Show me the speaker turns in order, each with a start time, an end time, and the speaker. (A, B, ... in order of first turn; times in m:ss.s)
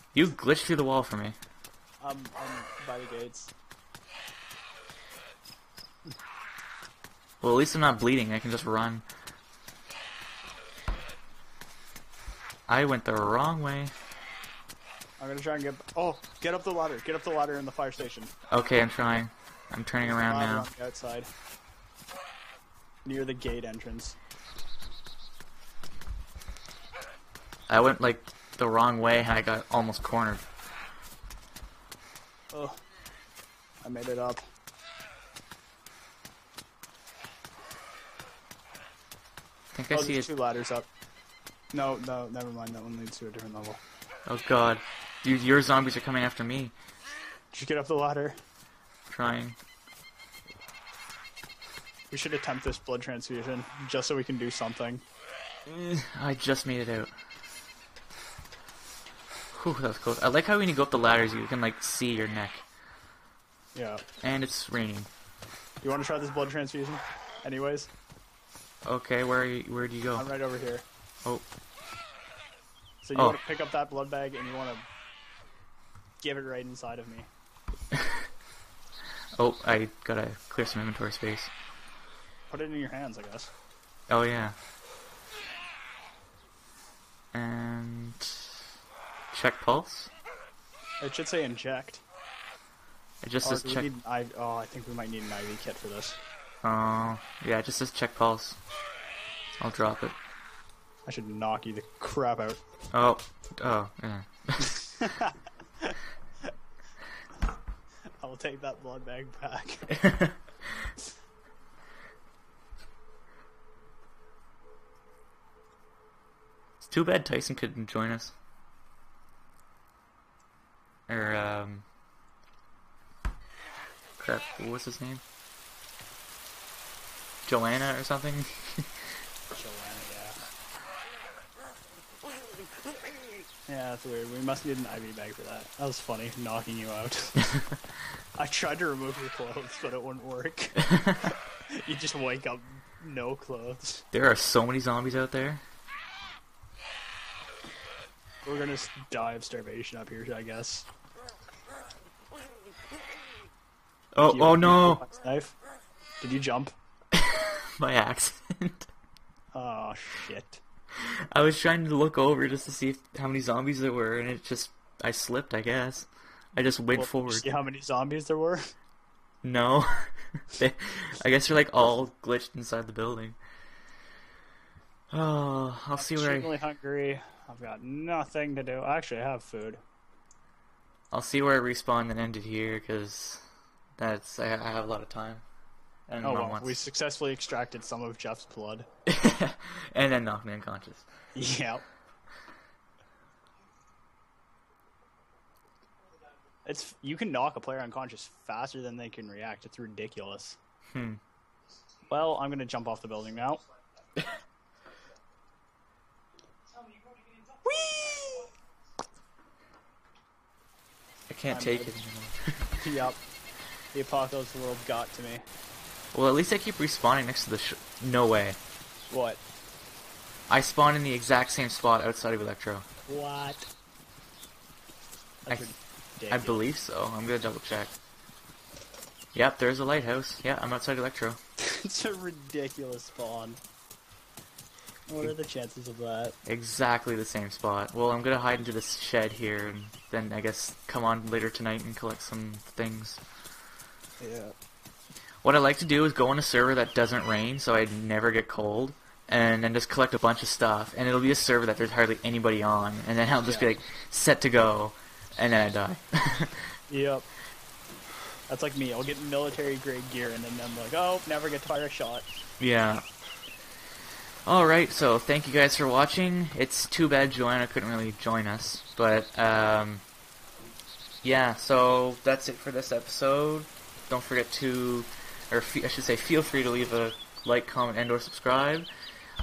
0:00.1-0:01.4 A
0:02.0-0:03.5 B
0:07.4-0:09.0 A
0:12.7-0:13.9 A
0:15.2-0:18.3 B
0:18.5-0:20.7 A
0:20.0-0:21.3 B
0:23.0-0:24.2 B
0:27.7-0:30.4 A
0:32.5-0:32.8 B
0:33.8-0:34.4 B
0:39.7-0:40.3 A
0:39.9-0:40.9 B
0:41.7-0:43.8 B
0:44.3-0:46.7 A
0:47.5-0:48.4 B
0:49.1-0:49.6 A
0:52.1-0:55.0 B
0:55.6-0:57.1 A
0:59.5-1:02.6 A
1:03.7-1:04.0 B
1:04.2-1:05.1 A
1:05.8-1:07.9 B
1:08.8-1:10.3 A
1:10.2-1:10.8 B
1:13.0-1:14.8 B
1:16.2-1:17.3 B
1:17.9-1:18.2 A
1:19.4-1:21.5 A
1:22.5-1:23.5 B
1:24.1-1:24.6 A
1:27.3-1:28.7 A
1:29.3-1:30.1 A
1:31.0-1:32.0 B
1:33.2-1:33.9 A
1:33.4-1:36.2 B
1:36.6-1:38.6 A
1:39.6-1:40.2 A
1:41.0-1:42.6 B
1:42.9-1:44.8 A
1:44.6-1:46.5 B
1:48.2-1:50.0 B
1:49.9-1:50.9 A
1:56.8-1:58.3 A
2:01.1-2:01.8 A
2:04.2-2:05.2 A
2:07.4-2:09.1 A
2:09.5-2:10.4 B
2:13.7-2:17.5 B
2:17.4-2:17.8 A
2:18.3-2:24.0 B
2:24.1-2:25.6 A
2:28.4-2:30.9 B
2:34.1-2:35.0 A
2:34.3-2:35.6 B
2:36.2-2:36.7 B
2:37.1-2:38.9 A
2:39.5-2:40.6 B
2:40.9-2:47.4 A
2:46.9-2:48.7 B
2:49.4-2:53.4 A
2:55.1-2:56.6 A
2:56.0-2:59.8 B
3:01.1-3:03.4 A
3:04.0-3:05.4 A
3:06.1-3:06.8 A
3:06.2-3:08.9 B
3:09.0-3:11.1 A
3:11.3-3:11.8 B
3:16.6-3:20.6 B
3:20.9-3:21.2 A
3:22.1-3:23.6 B
3:27.6-3:28.5 A
3:31.3-3:32.8 A
3:31.5-3:31.9 B
3:32.8-3:33.2 B
3:33.9-3:35.4 B
3:36.1-3:38.6 A
3:39.1-3:39.4 B
3:40.5-3:42.8 A
3:43.1-3:43.7 B
3:45.4-3:46.6 B
3:46.3-3:47.9 A
3:49.3-3:51.4 A
3:51.6-3:53.6 B
3:55.1-3:56.4 B
3:56.4-4:03.2 A
4:04.2-4:04.5 B
4:05.4-4:16.7 A
4:16.9-4:17.3 B
4:18.5-4:22.2 B
4:22.6-4:23.0 A
4:24.4-4:30.0 A
4:31.2-4:38.9 A